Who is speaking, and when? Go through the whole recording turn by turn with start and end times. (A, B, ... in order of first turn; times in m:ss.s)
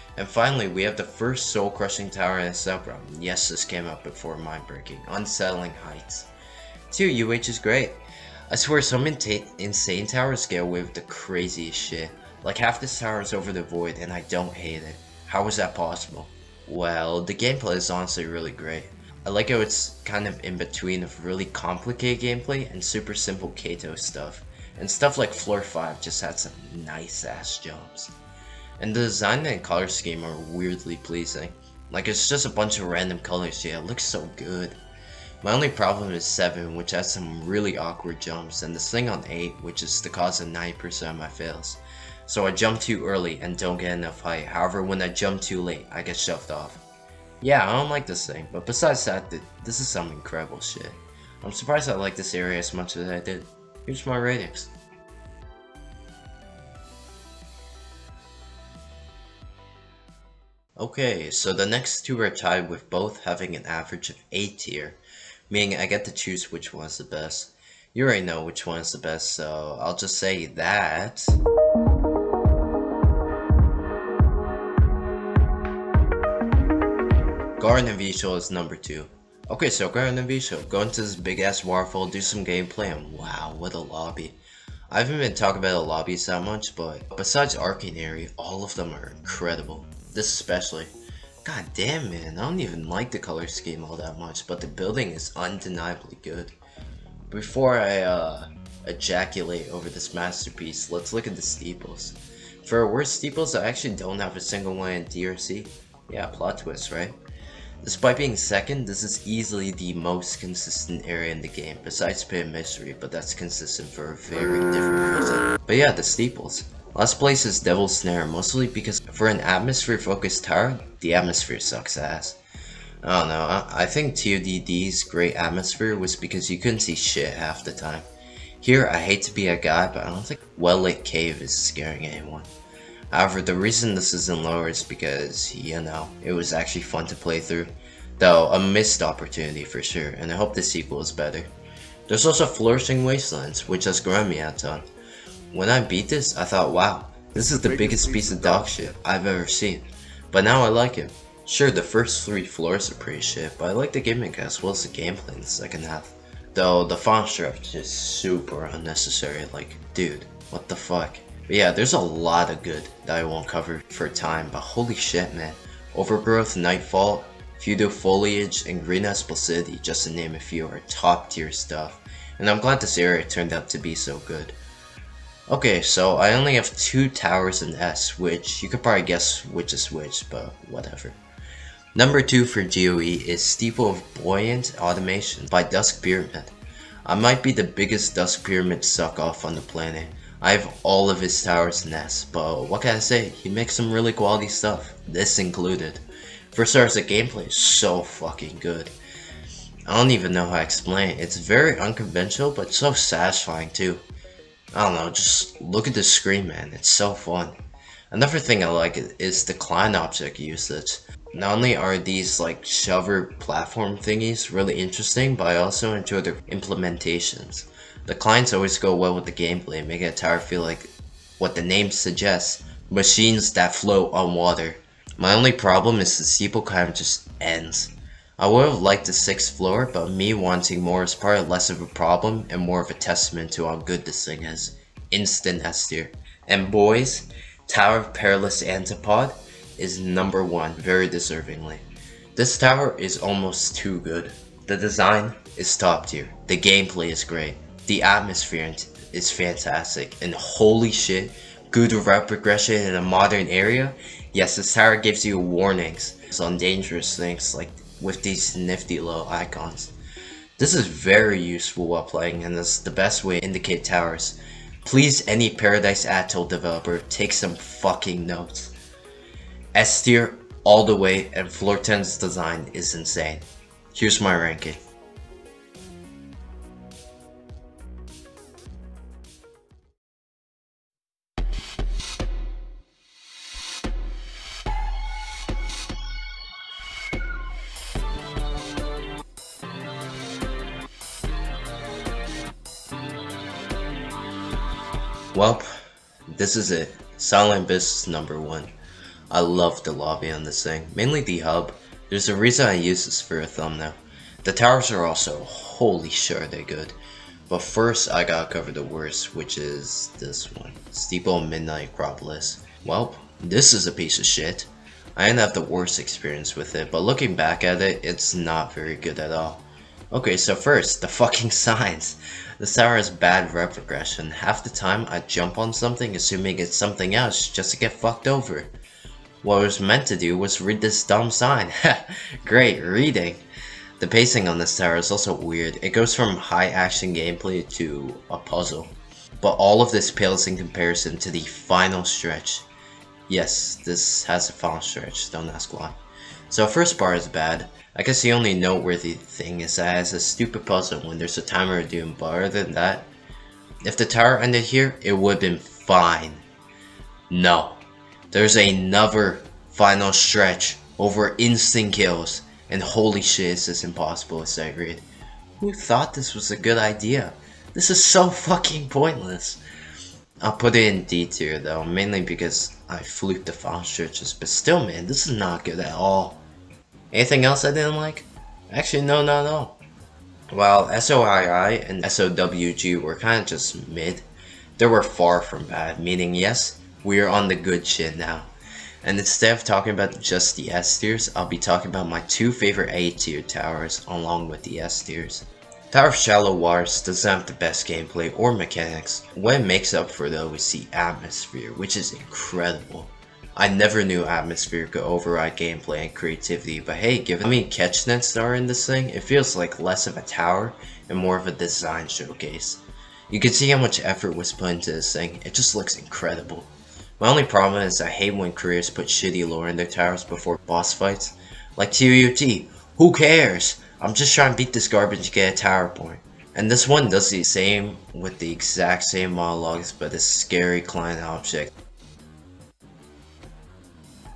0:00.2-0:06.3 A
0:06.9-0:28.1 A
0:28.8-0:34.8 A
0:35.4-0:46.8 A
0:47.4-0:54.7 A
1:00.8-1:05.0 A
1:05.5-1:11.4 A
1:17.6-1:24.4 A
1:24.9-1:30.9 A
1:31.4-1:36.6 A
1:37.3-1:47.2 A
1:47.8-2:02.4 A
2:03.0-2:08.0 A
2:08.6-2:12.5 A
2:13.1-2:21.5 A
2:22.1-2:24.8 A
2:25.5-2:54.6 A
2:55.5-3:01.2 A
3:01.9-3:06.5 A
3:07.0-3:18.9 A
3:19.9-3:24.0 A
3:24.7-3:27.6 A
3:28.1-4:01.8 A
4:02.3-4:19.9 A
4:20.6-4:28.7 A
4:29.7-4:34.8 A
4:55.3-4:55.7 A
4:56.3-4:58.7 A
4:59.3-5:07.0 A
5:07.5-5:28.7 A
5:29.4-5:33.4 A
5:34.0-5:42.7 A
5:43.3-5:46.0 A
5:46.5-5:53.1 A
5:53.8-5:56.4 A
5:57.3-6:05.0 A
6:05.6-6:09.6 A
6:10.4-6:16.4 A
6:17.1-6:19.8 A
6:20.5-6:24.3 A
6:24.8-6:28.5 A
6:29.0-7:11.7 A